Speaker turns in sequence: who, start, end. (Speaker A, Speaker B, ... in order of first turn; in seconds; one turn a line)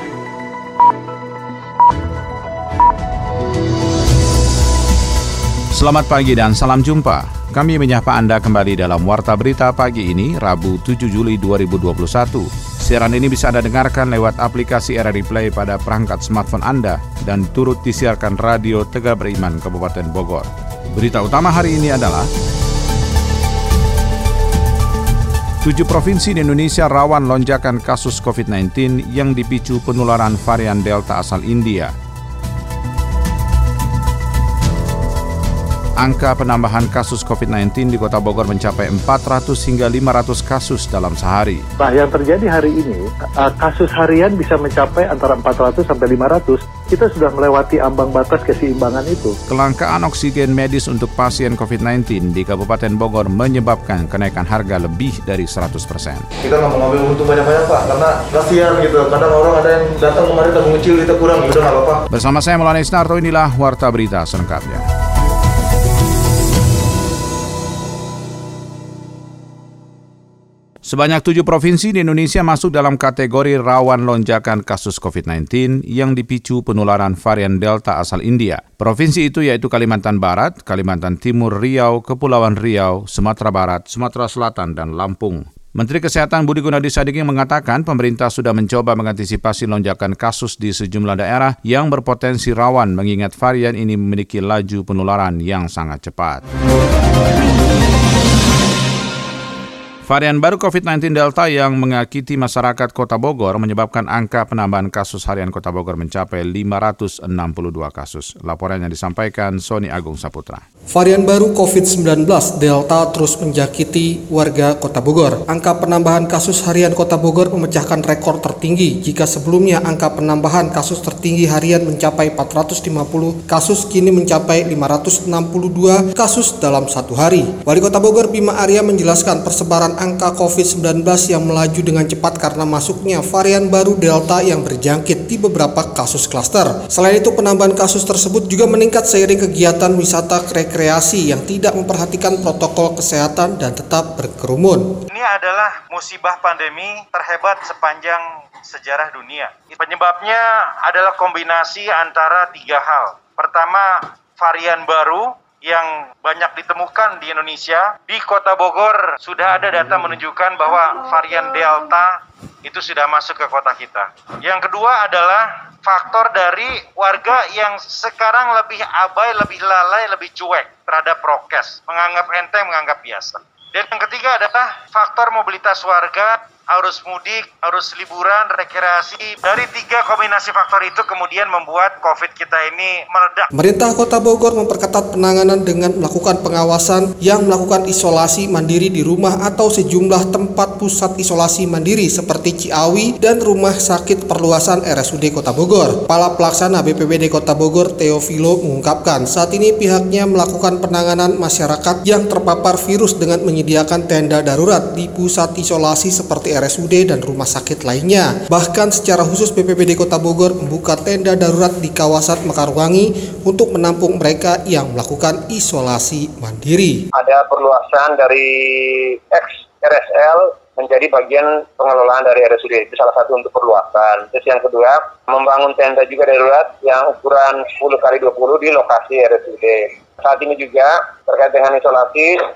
Speaker A: 5.7-22.3
Speaker A: 25.6-31.9
Speaker A: 36.0-41.7
Speaker B: 41.8-49.4
Speaker A: 49.5-56.3
Speaker C: 56.4-62.0
Speaker A: 62.1-64.9
Speaker A: 70.8-96.4
Speaker A: 100.1-110.6
Speaker D: 110.9-144.9
Speaker E: 145.1-183.5
Speaker D: 183.5-216.9
Speaker F: 217.2-218.4
Speaker F: 219.3-232.3